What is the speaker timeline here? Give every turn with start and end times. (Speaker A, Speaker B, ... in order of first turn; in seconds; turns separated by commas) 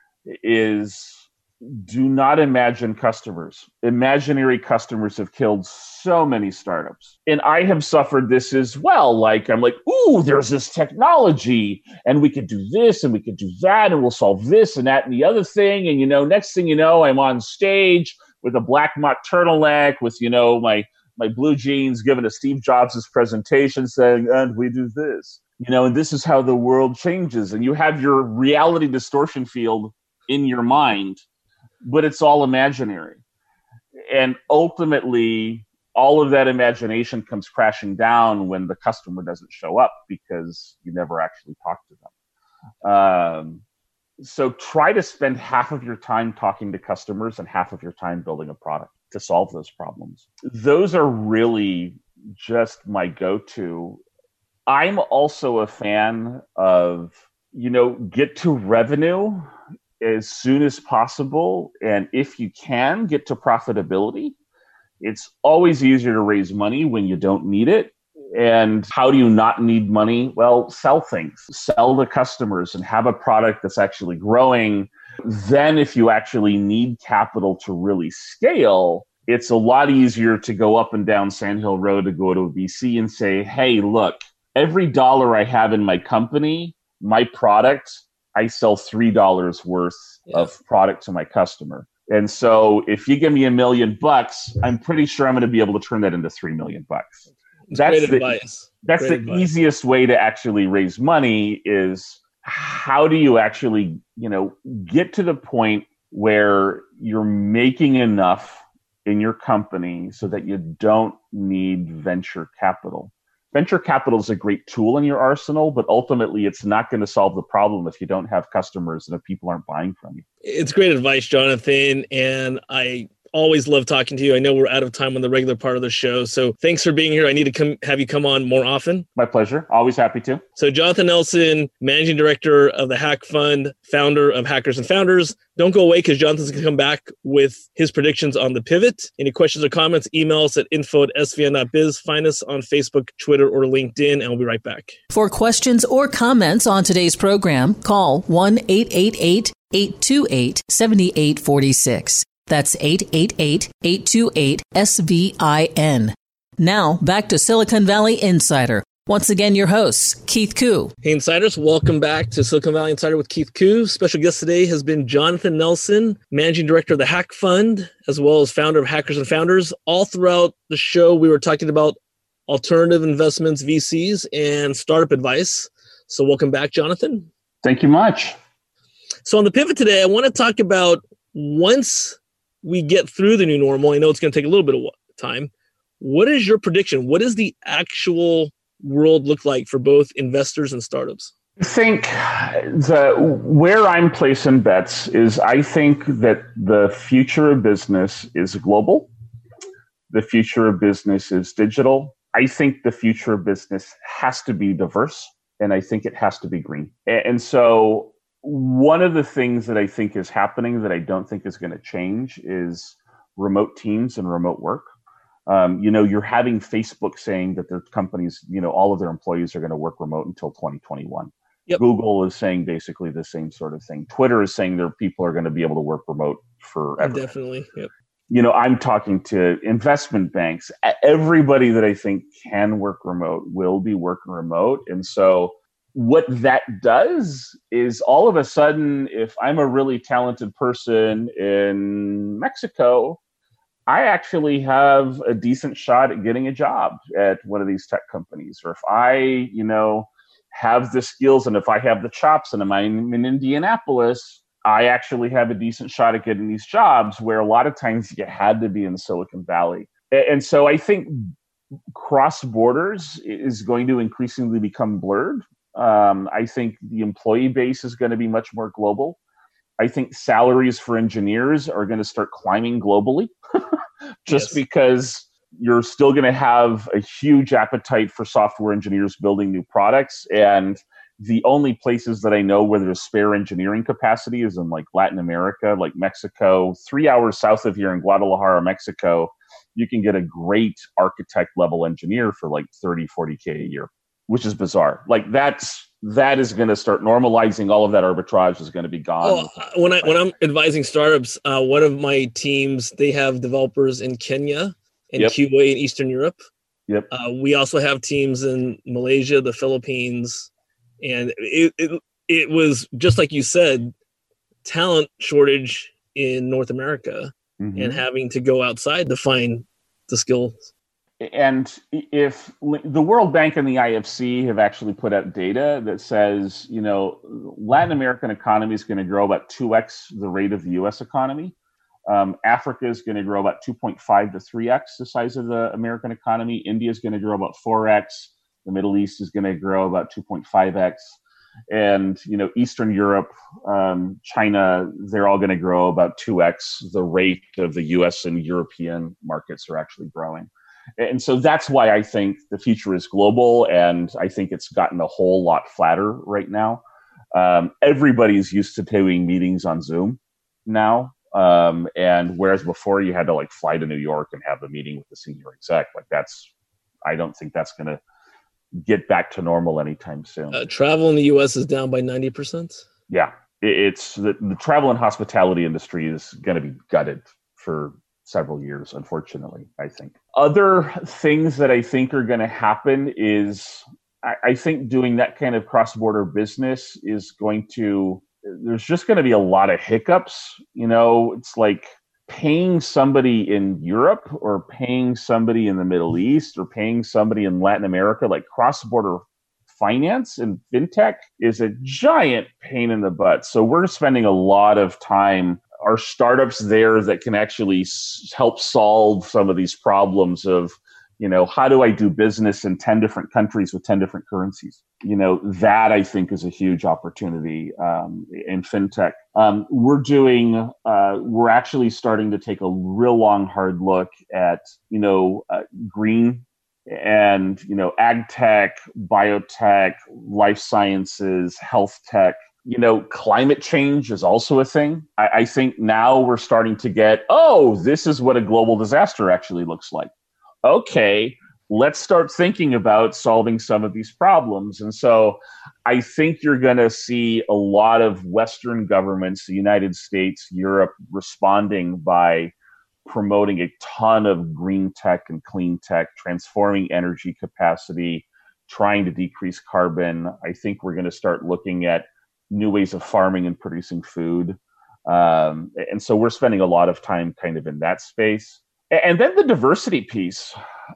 Speaker A: 0.3-31.2, Speaker A: 31.8-33.2, Speaker A: 34.1-42.1, Speaker A: 42.8-43.6, Speaker A: 44.2-54.0, Speaker A: 54.7-59.5, Speaker A: 60.0-64.4, Speaker A: 65.0-98.3, Speaker B: 97.7-99.5, Speaker A: 98.8-120.2, Speaker B: 120.4-129.1, Speaker A: 129.2-130.4, Speaker B: 130.6-145.0, Speaker C: 145.1-160.9, Speaker B: 161.0-172.0, Speaker B: 172.5-177.3, Speaker A: 177.6-178.4, Speaker B: 179.2-191.3, Speaker A: 191.6-199.1, Speaker A: 200.1-214.9, Speaker A: 215.5-227.3, Speaker B: 227.0-227.9, Speaker A: 228.3-243.2, Speaker A: 243.9-261.3, Speaker A: 261.9-269.2, Speaker A: 269.8-300.3, Speaker B: 274.3-274.6, Speaker B: 299.2-306.4, Speaker B: 307.1-310.5, Speaker B: 311.0-313.9, Speaker B: 314.6-320.7, Speaker A: 317.6-318.0, Speaker A: 321.2-331.6, Speaker A: 332.1-341.2, Speaker A: 341.7-366.5, Speaker A: 367.1-368.0, Speaker A: 368.9-370.6, Speaker B: 370.5-372.9, Speaker A: 373.1-440.1, Speaker A: 440.6-452.5, Speaker A: 453.1-470.6